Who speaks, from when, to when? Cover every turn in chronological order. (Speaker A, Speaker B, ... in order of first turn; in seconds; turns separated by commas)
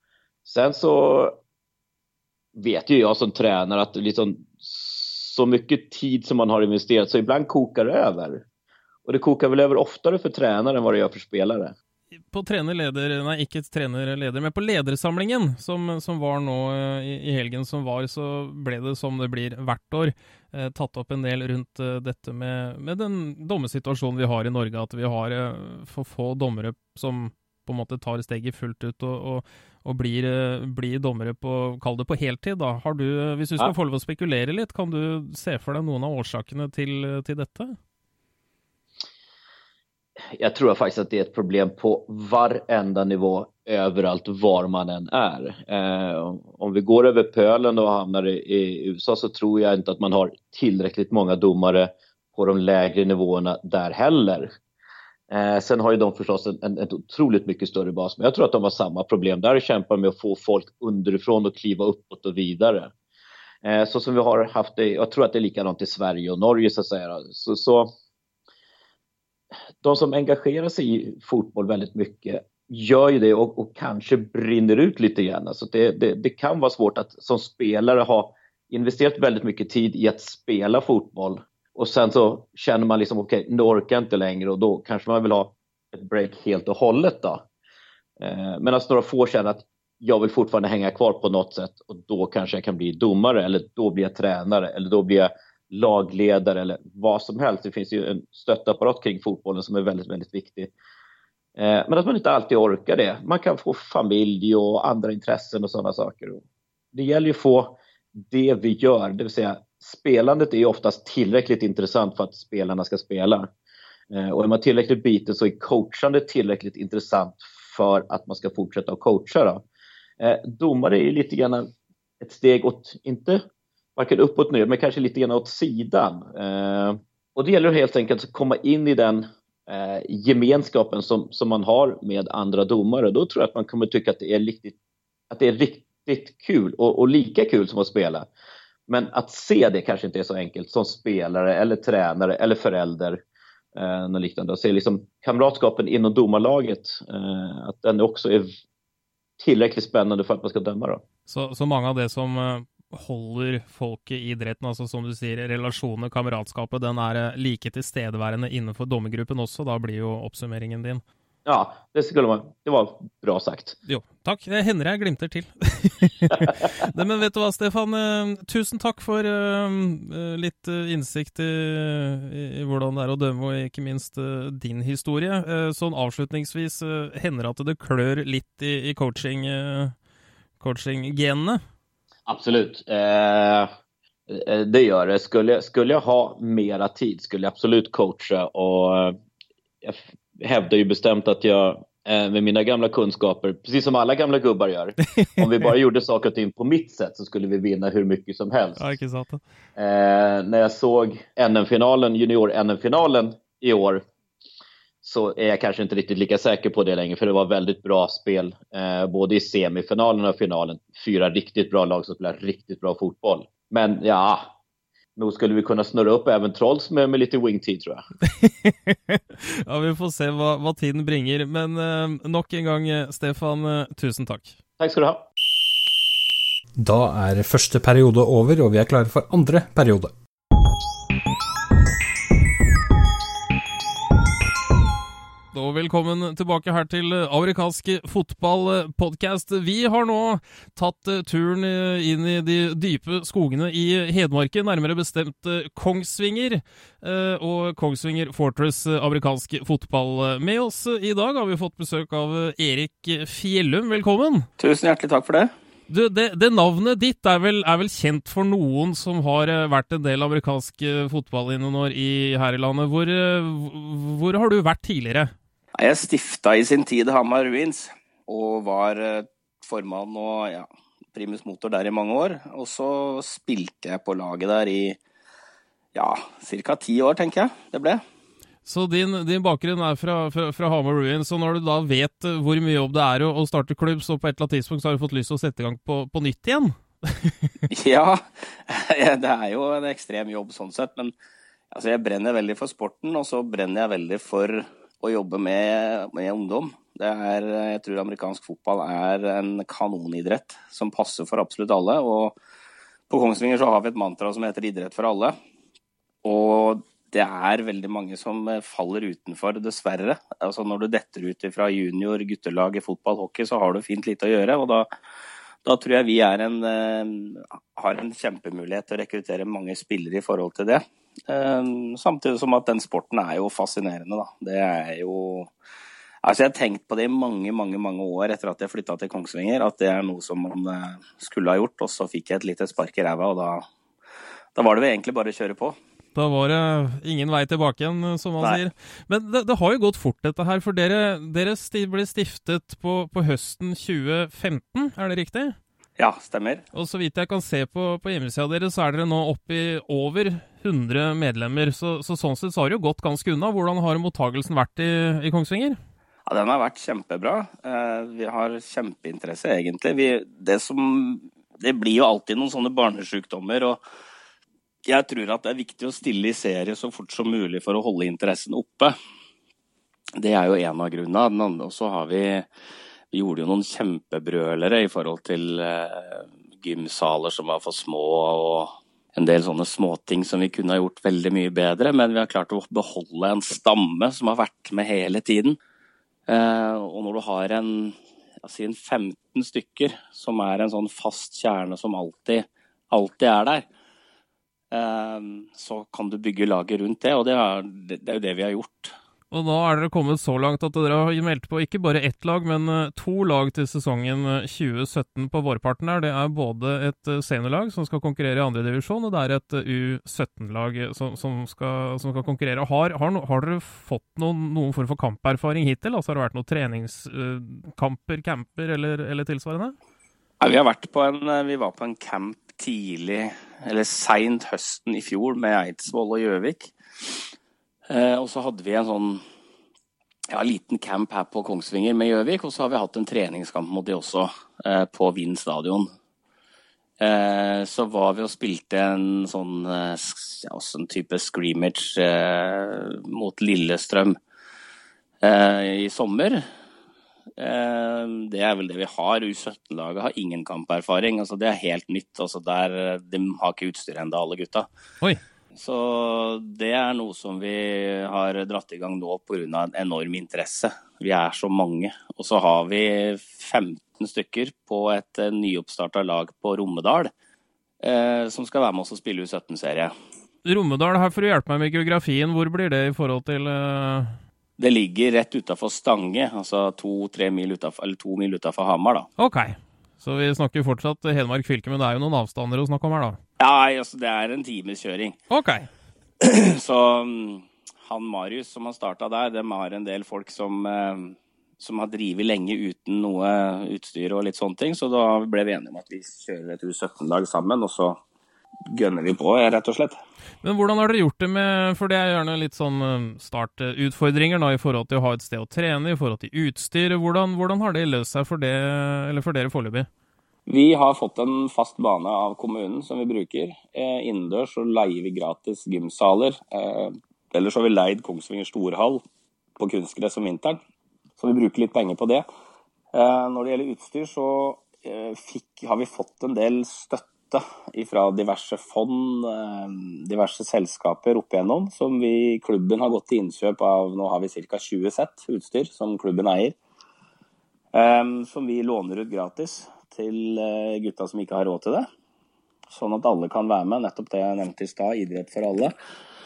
Speaker A: 0.5-1.4, Speaker A: 2.5-8.4, Speaker A: 9.1-11.8, Speaker B: 12.3-37.8, Speaker A: 40.4-54.5, Speaker A: 55.3-62.9, Speaker A: 63.6-67.9, Speaker A: 69.8-87.5, Speaker A: 88.2-100.7, Speaker A: 101.6-106.4, Speaker A: 106.9-113.5, Speaker A: 114.1-119.6, Speaker A: 120.2-121.7, Speaker A: 122.2-123.4, Speaker A: 124.0-134.8, Speaker A: 135.3-138.3, Speaker A: 138.9-143.2, Speaker A: 143.8-148.5, Speaker A: 149.4-151.0, Speaker B: 151.3-161.0, Speaker A: 161.5-163.8, Speaker B: 163.9-179.9, Speaker B: 180.6-181.6, Speaker A: 182.3-183.7, Speaker A: 184.3-189.2, Speaker A: 189.8-198.9, Speaker B: 198.8-199.4, Speaker A: 199.8-204.0, Speaker A: 205.0-214.6, Speaker A: 215.2-218.1, Speaker B: 218.4-224.6, Speaker A: 224.8-225.3, Speaker C: 226.8-230.1, Speaker B: 235.5-254.5, Speaker D: 254.6-255.5, Speaker B: 255.9-265.3, Speaker D: 265.8-275.0, Speaker D: 275.9-278.0, Speaker B: 278.6-287.4, Speaker D: 287.7-291.1, Speaker D: 291.7-302.4, Speaker D: 303.1-305.4, Speaker D: 306.2-314.9, Speaker D: 315.6-325.5, Speaker D: 326.2-333.6, Speaker D: 334.6-335.8, Speaker B: 336.1-345.6, Speaker D: 346.0-346.6, Speaker B: 346.7-355.8, Speaker D: 356.3-363.8, Speaker D: 364.9-368.9, Speaker D: 370.2-372.5, Speaker D: 373.1-385.6, Speaker D: 386.3-393.6, Speaker D: 394.7-398.9, Speaker B: 399.3-419.8, Speaker D: 420.4-427.2, Speaker D: 427.9-429.2, Speaker D: 430.3-435.9, Speaker D: 437.0-444.2, Speaker D: 445.2-446.4, Speaker D: 447.4-454.7, Speaker D: 455.6-467.1, Speaker D: 467.8-469.9, Speaker B: 470.4-474.2, Speaker D: 474.6-479.1, Speaker B: 479.2-483.2, Speaker D: 483.4-485.2, Speaker B: 485.3-485.7, Speaker D: 486.2-498.0, Speaker D: 498.7-500.0, Speaker B: 500.4-509.9, Speaker D: 510.5-519.0, Speaker D: 519.6-520.6, Speaker D: 521.2-522.2, Speaker D: 522.9-536.5, Speaker D: 537.7-541.9, Speaker D: 542.7-545.7